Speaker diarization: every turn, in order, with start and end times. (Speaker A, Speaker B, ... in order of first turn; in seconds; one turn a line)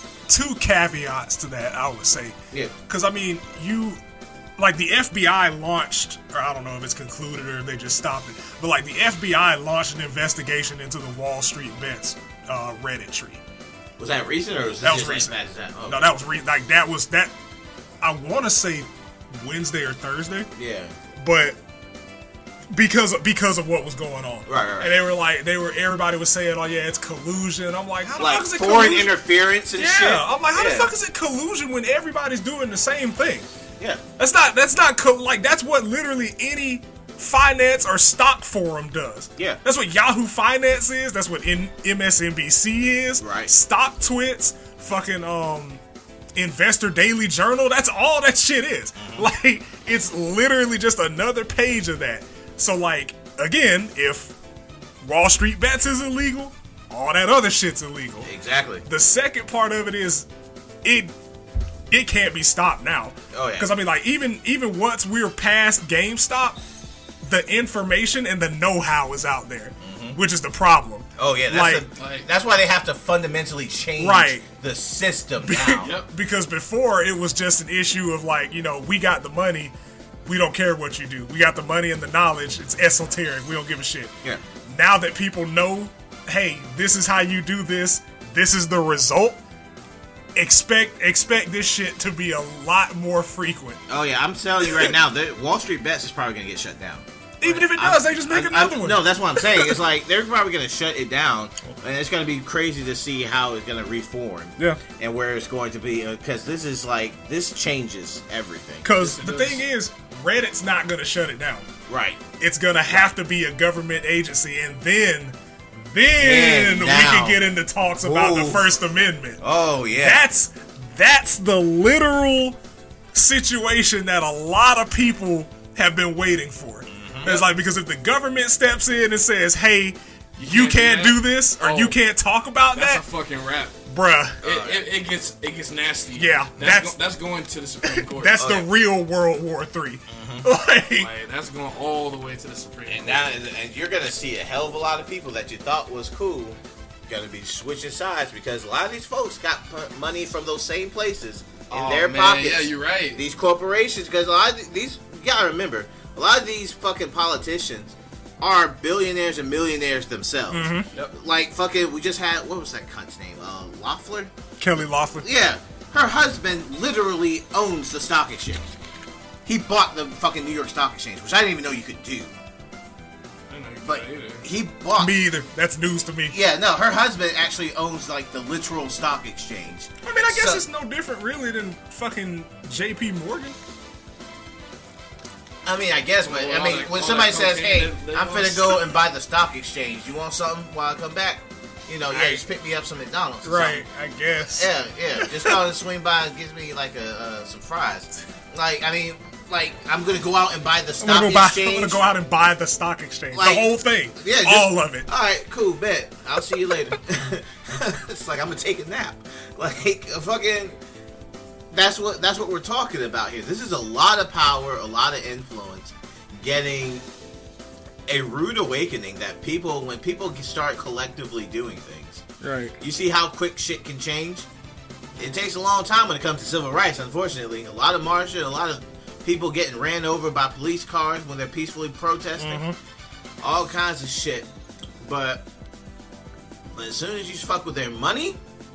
Speaker A: 0.3-2.4
Speaker A: 2.9-4.0
Speaker A: 4.6-13.4
Speaker B: 14.0-16.1
Speaker A: 14.8-15.3
Speaker A: 15.9-17.3
Speaker A: 18.0-20.5
Speaker B: 20.6-20.9
Speaker A: 21.2-21.6
Speaker A: 22.7-29.1
Speaker B: 24.5-25.0
Speaker B: 28.2-30.9
Speaker A: 29.8-33.5
Speaker A: 34.2-45.8
Speaker B: 43.2-43.5
Speaker A: 46.4-54.4
Speaker B: 49.0-49.3
Speaker A: 55.0-58.3
Speaker B: 58.2-58.9
Speaker A: 58.9-60.3
Speaker A: 60.8-61.1
Speaker A: 61.9-66.6
Speaker B: 63.3-63.7
Speaker A: 67.2-71.9
Speaker B: 69.8-70.2
Speaker B: 71.2-75.9
Speaker C: 72.0-72.3
Speaker A: 74.0-74.5
Speaker A: 75.4-79.7
Speaker C: 75.8-76.1
Speaker A: 80.3-84.1
Speaker A: 84.7-89.4
Speaker A: 90.3-93.8
Speaker B: 93.9-108.9
Speaker A: 97.4-99.8
Speaker A: 108.8-111.7
Speaker C: 109.0-109.6
Speaker B: 111.9-112.3
Speaker A: 112.4-119.4
Speaker B: 116.2-117.4
Speaker B: 118.0-118.7
Speaker B: 119.4-120.2
Speaker A: 120.0-122.6
Speaker A: 123.1-133.0
Speaker B: 126.9-127.4
Speaker C: 130.4-132.0
Speaker C: 132.7-133.8
Speaker A: 133.9-134.4
Speaker C: 134.4-138.4
Speaker B: 134.4-134.8
Speaker A: 136.1-137.0
Speaker A: 138.0-141.1
Speaker B: 138.4-138.7
Speaker B: 140.1-140.4
Speaker C: 140.9-143.3
Speaker B: 142.9-164.3
Speaker C: 151.7-153.2
Speaker A: 160.5-160.9
Speaker A: 164.6-165.3
Speaker B: 165.2-168.7
Speaker B: 169.4-172.3
Speaker C: 173.5-174.4
Speaker B: 173.8-175.2
Speaker A: 175.0-176.4
Speaker B: 176.3-180.6
Speaker A: 180.0-183.6
Speaker B: 185.6-193.8
Speaker C: 186.2-188.9
Speaker A: 192.1-192.4
Speaker A: 193.4-195.6
Speaker B: 194.5-202.0
Speaker A: 201.0-205.1
Speaker B: 203.3-210.8
Speaker B: 211.7-217.0
Speaker B: 218.1-222.2
Speaker A: 222.4-222.8
Speaker B: 222.8-224.4
Speaker B: 225.2-232.6
Speaker A: 232.4-232.8
Speaker B: 233.4-234.5
Speaker B: 235.0-235.4
Speaker B: 236.7-238.4